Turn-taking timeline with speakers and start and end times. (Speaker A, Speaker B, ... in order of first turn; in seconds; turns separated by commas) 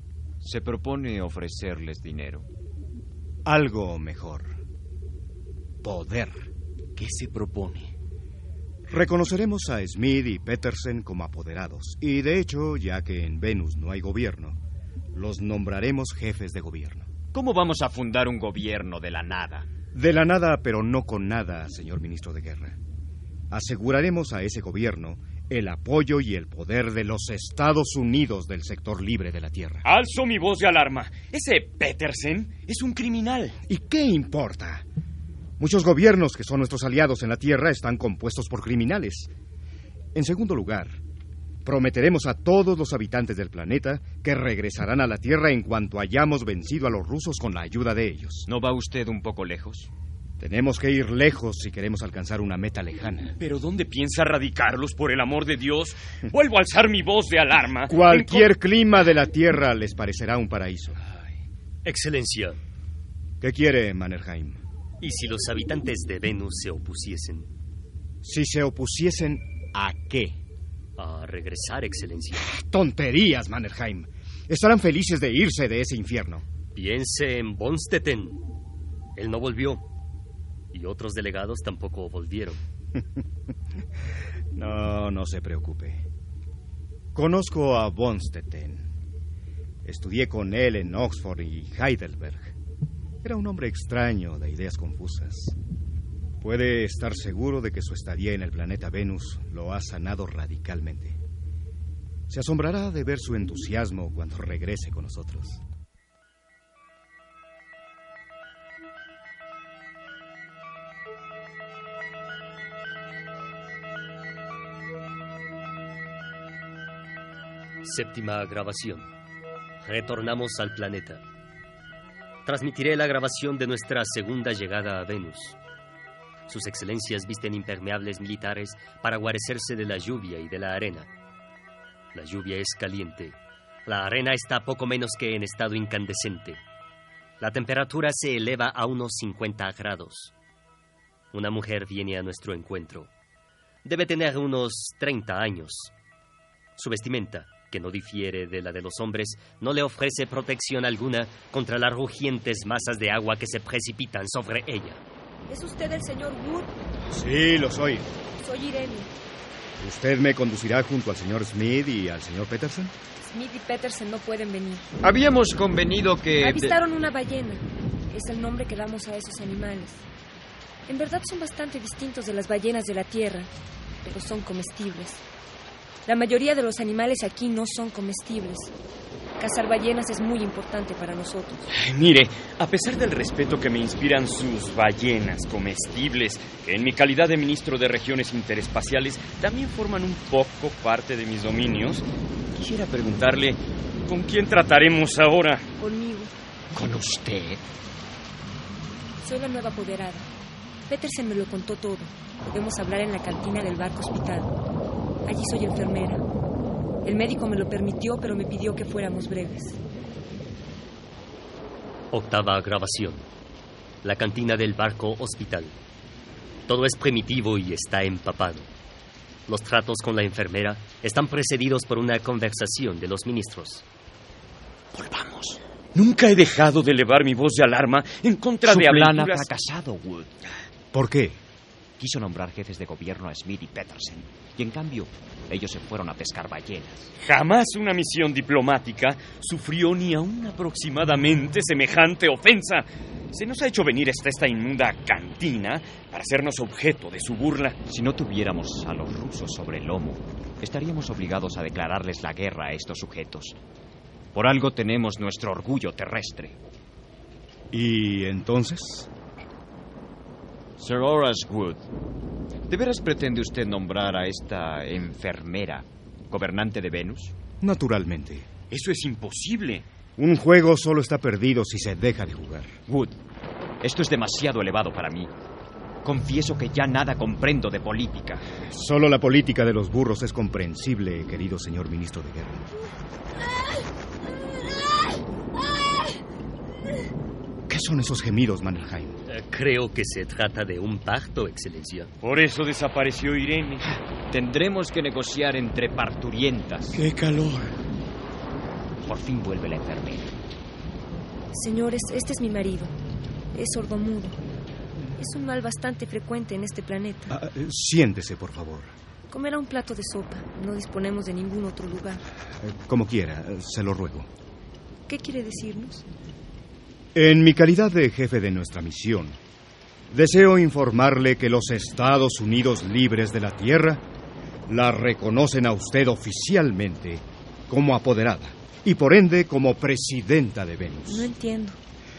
Speaker A: 0.4-2.5, Speaker B: 3.5-4.6, Speaker B: 5.8-6.5, Speaker C: 7.0-7.9, Speaker B: 8.9-14.6, Speaker B: 15.1-17.1, Speaker A: 17.3-19.7, Speaker B: 19.9-22.8, Speaker B: 23.5-29.8, Speaker C: 29.8-33.6, Speaker B: 33.6-34.9, Speaker B: 35.6-39.3, Speaker B: 40.1-41.0, Speaker B: 41.6-48.5, Speaker A: 48.5-49.9, Speaker B: 50.4-53.3, Speaker C: 53.4-58.5, Speaker B: 57.9-61.0, Speaker D: 61.9-62.6, Speaker B: 63.4-64.6, Speaker D: 65.0-67.5, Speaker B: 68.2-70.4, Speaker D: 71.0-72.5, Speaker B: 72.4-76.5, Speaker D: 76.8-78.4, Speaker D: 79.2-79.9, Speaker D: 80.7-82.6, Speaker B: 84.5-86.1, Speaker B: 87.1-88.9, Speaker B: 89.8-92.5, Speaker B: 93.2-95.6, Speaker B: 96.4-101.2, Speaker B: 102.3-105.6, Speaker D: 117.8-119.1, Speaker D: 119.8-121.2, Speaker D: 122.5-125.6, Speaker D: 126.5-131.1, Speaker D: 132.1-136.6, Speaker D: 137.4-140.3, Speaker D: 141.3-143.1, Speaker D: 143.8-145.9, Speaker D: 146.8-155.0, Speaker E: 155.5-156.7, Speaker B: 157.1-158.1, Speaker E: 158.4-159.1, Speaker B: 159.8-162.9, Speaker E: 163.2-164.9, Speaker A: 165.0-166.8, Speaker E: 166.4-170.0, Speaker E: 170.9-173.5, Speaker E: 174.0-175.2, Speaker E: 176.1-178.7, Speaker E: 179.4-181.7, Speaker C: 181.7-195.7, Speaker E: 195.8-196.3, Speaker A: 196.7-197.6, Speaker E: 199.2-200.3, Speaker E: 200.9-204.5, Speaker E: 205.2-206.2, Speaker E: 207.0-209.8, Speaker D: 212.1-213.2, Speaker D: 214.0-215.8, Speaker D: 216.7-218.7, Speaker D: 219.5-223.8, Speaker A: 224.9-225.6, Speaker C: 225.9-229.5, Speaker A: 228.7-230.3, Speaker B: 230.9-231.4, Speaker A: 232.0-237.1, Speaker C: 237.2-247.8, Speaker A: 247.9-253.6, Speaker A: 254.3-256.6, Speaker B: 257.7-259.1, Speaker A: 260.8-261.9, Speaker A: 262.7-267.4, Speaker B: 267.6-268.5, Speaker C: 268.7-269.9, Speaker B: 270.2-272.8, Speaker A: 272.9-273.2, Speaker A: 273.8-275.3, Speaker A: 276.0-278.5, Speaker B: 278.7-282.7, Speaker B: 287.7-289.2, Speaker D: 289.3-292.1, Speaker C: 292.2-293.9, Speaker A: 294.3-297.0, Speaker C: 296.9-297.8, Speaker A: 299.0-300.3, Speaker E: 301.5-302.9, Speaker E: 303.5-304.4, Speaker E: 305.2-307.3, Speaker B: 307.3-308.9, Speaker E: 309.3-312.2, Speaker B: 312.6-314.3, Speaker E: 315.1-316.1, Speaker B: 317.1-319.4, Speaker B: 320.1-324.0, Speaker B: 324.7-331.3, Speaker E: 331.1-331.8